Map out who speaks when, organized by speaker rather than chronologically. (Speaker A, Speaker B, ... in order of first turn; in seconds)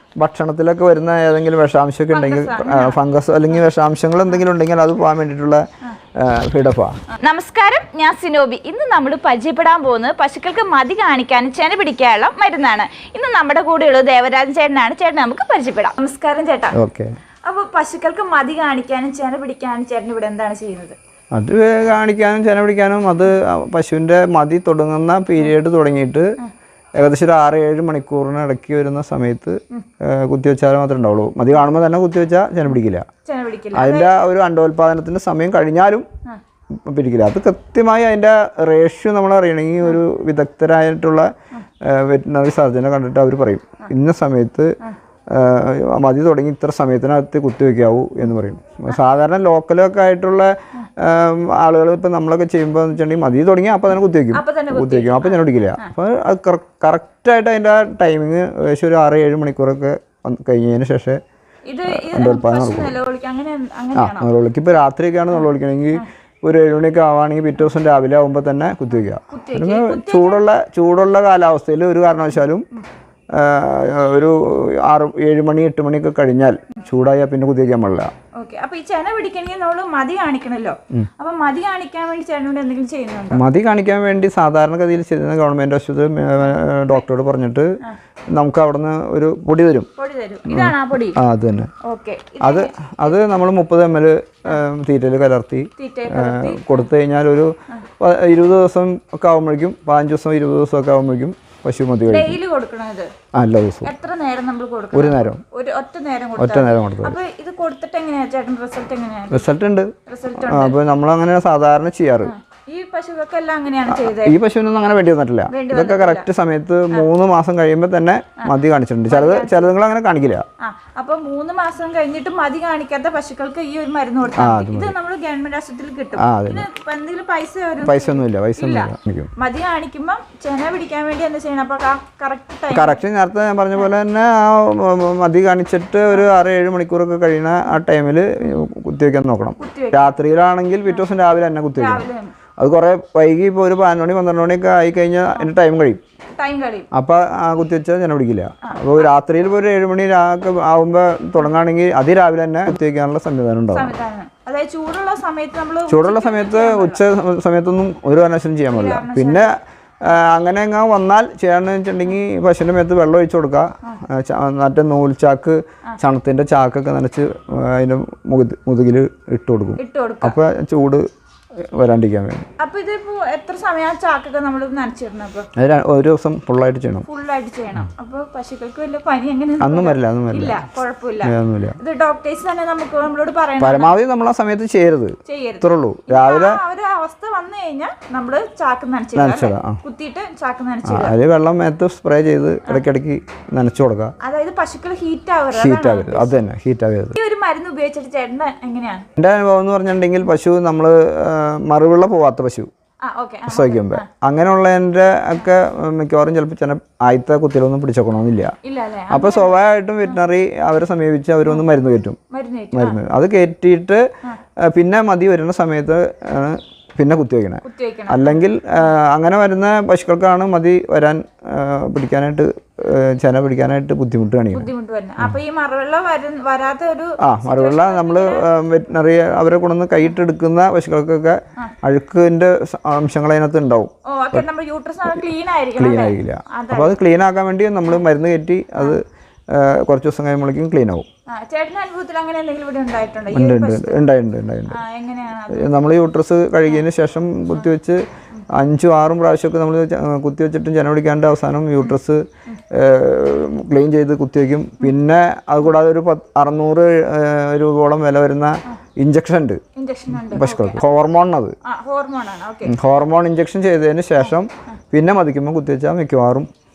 Speaker A: 0.2-5.6, 6.2-7.0, 16.8-17.1, 21.3-26.4, 27.0-33.1, 33.7-36.1, 36.9-41.3, 41.8-44.8, 45.3-61.2, 61.9-63.0, 64.0-72.7, 73.3-78.1, 83.3-87.8, 88.3-89.9, 90.5-91.7, 92.4-102.4, 103.3-103.9, 104.9-105.4, 106.4-107.2, 109.3-112.3, 113.9-120.4, 124.3-124.9, 126.2-126.7, 127.8-129.3, 132.7-146.0, 146.9-153.9, 155.9-171.0, 171.6-172.5, 175.6-177.1, 179.6-180.6, 181.2-181.8, 183.6-186.6, 189.1-189.8, 190.8-194.1, 195.5-197.2, 199.2-202.7, 203.5-208.5, 209.1-212.2, 212.7-214.0, 214.6-225.4, 227.2-234.4, 235.8-241.1, 243.3-244.8, 245.5-261.6, 262.6-266.5
Speaker B: 2.1-3.0, 7.1-16.8, 17.5-21.0, 33.2-34.1, 54.3-55.9, 61.7-64.3, 69.3-70.4, 78.3-83.4, 90.0-91.2, 91.8-93.2, 95.8-96.8, 102.1-103.1, 103.8-109.5, 110.1-110.8, 112.2-114.3, 115.5-116.3, 119.1-119.7, 120.6-133.0, 139.6-140.1, 141.8-142.3, 146.4-146.9, 148.6-149.1, 153.7-157.0, 158.7-159.5, 169.8-170.3, 172.6-175.5, 177.1-183.9, 185.2-191.2, 194.2-196.3, 197.1-199.1, 203.0-204.1, 208.6-210.2, 212.3-213.0, 217.6-218.4, 224.5-228.5, 234.1-236.9, 241.3-244.0, 244.7-245.9, 259.8-260.8, 261.6-262.8